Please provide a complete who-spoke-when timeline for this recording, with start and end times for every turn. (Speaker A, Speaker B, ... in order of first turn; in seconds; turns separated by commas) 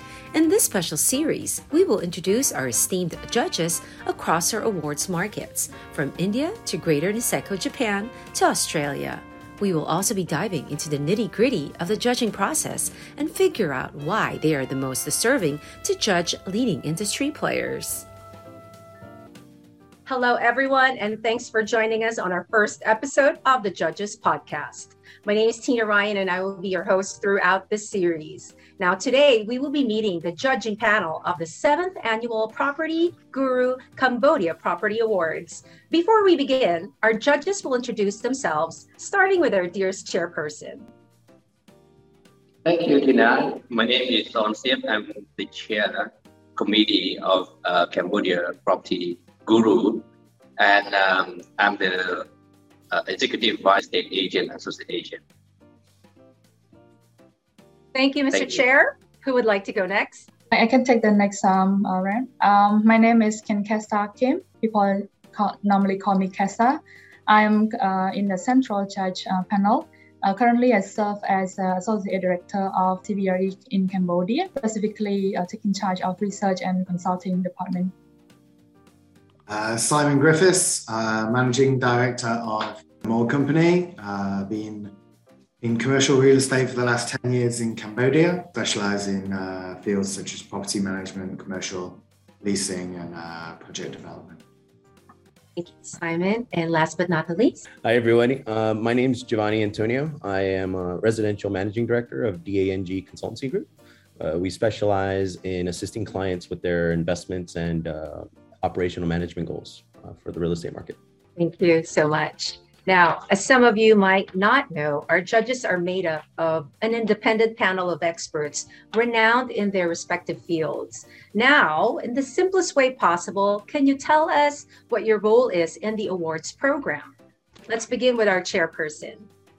Speaker A: 0.3-18.1, Speaker B: 20.1-40.9, Speaker C: 42.6-50.0, Speaker C: 50.6-52.3, Speaker C: 52.9-55.2, Speaker B: 57.9-60.2, Speaker C: 58.3-58.6, Speaker D: 60.5-77.9, Speaker E: 79.5-85.0, Speaker E: 85.6-94.4, Speaker B: 95.5-97.6, Speaker F: 97.8-111.0, Speaker B: 111.4-127.1, Speaker B: 127.7-129.3